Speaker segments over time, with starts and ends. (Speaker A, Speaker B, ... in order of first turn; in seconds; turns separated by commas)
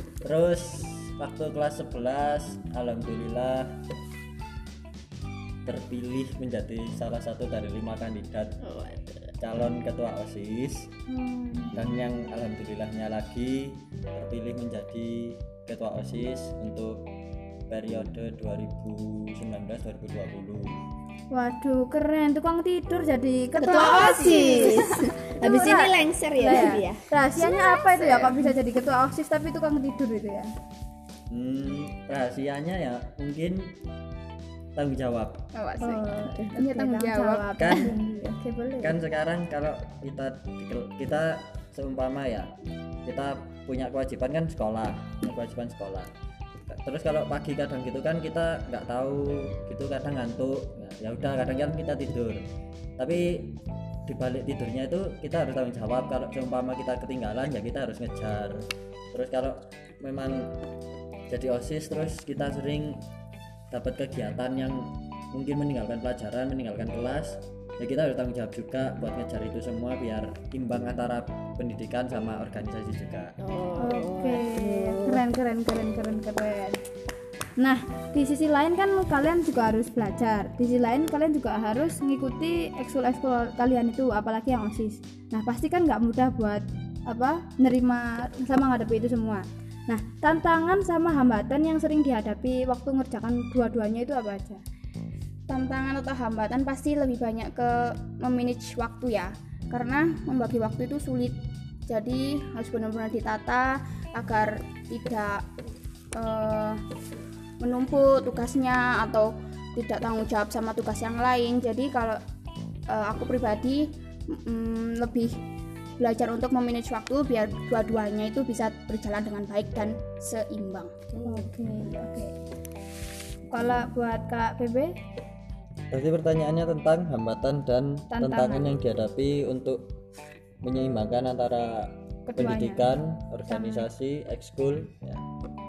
Speaker A: 0.2-3.8, Speaker A: 5.6-8.6, Speaker B: 8.6-9.3, Speaker A: 9.4-10.9, Speaker C: 11.1-11.7, Speaker A: 11.7-17.1, Speaker A: 17.7-20.8, Speaker C: 21.3-30.5, Speaker B: 23.6-28.4, Speaker A: 31.3-33.7, Speaker A: 34.8-35.5, Speaker D: 35.5-37.7, Speaker C: 35.8-39.0, Speaker A: 37.6-37.9, Speaker A: 38.8-42.5, Speaker A: 43.0-46.1, Speaker A: 46.7-52.4, Speaker A: 53.0-60.5, Speaker A: 61.3-63.0, Speaker A: 63.7-73.3, Speaker B: 73.4-75.2, Speaker C: 73.8-76.8, Speaker C: 77.6-94.6, Speaker D: 95.5-105.4, Speaker D: 106.1-106.8, Speaker D: 107.6-112.2, Speaker D: 112.9-115.4, Speaker D: 116.0-121.3, Speaker C: 121.2-122.4, Speaker C: 123.5-124.9, Speaker A: 125.9-129.9, Speaker C: 128.1-128.8, Speaker A: 130.6-135.2, Speaker C: 132.3-132.9, Speaker C: 133.5-133.8